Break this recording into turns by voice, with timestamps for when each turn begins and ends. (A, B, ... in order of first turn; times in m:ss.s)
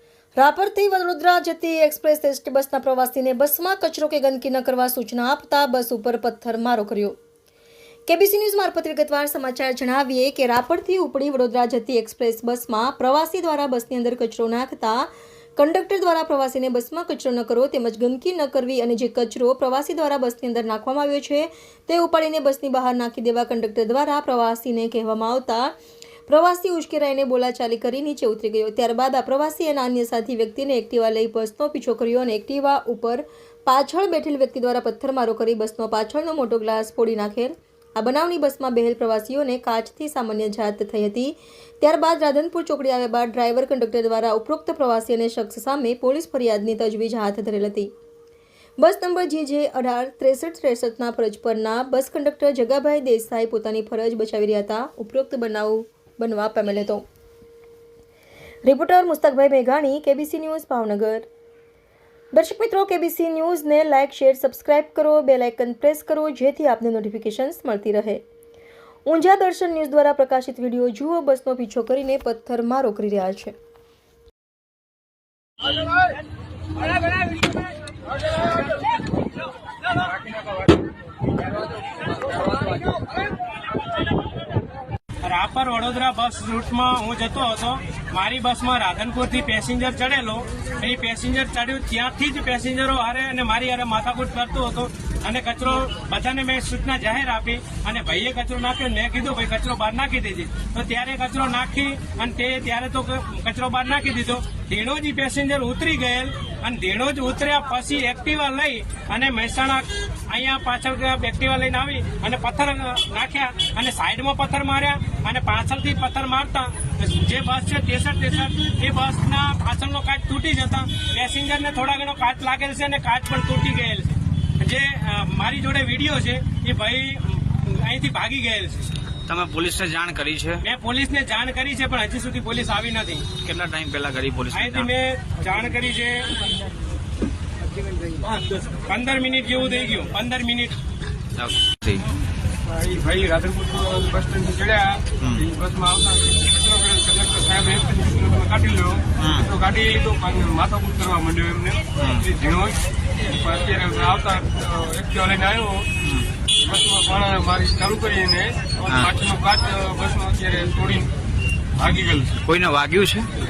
0:00.4-0:07.2 A
0:08.0-0:25.7 A
0:26.3-0:47.9 A
0:48.8-0:57.0 A
0:58.6-1:01.3 A
1:02.3-1:08.2 A
1:09.0-1:13.5 A
1:25.2-2:08.9 B
2:09.2-2:10.6 C
2:10.6-2:13.3 B
2:13.3-2:14.9 C
2:14.5-2:16.3 B
2:18.2-2:20.8 B
2:21.3-2:22.1 C
2:22.7-2:35.9 D
2:25.2-2:25.4 C
2:29.2-2:29.5 C
2:32.0-2:32.2 C
2:36.0-2:36.3 C
2:36.6-2:41.1 D
2:41.8-2:42.4 D
2:42.4-2:43.3 C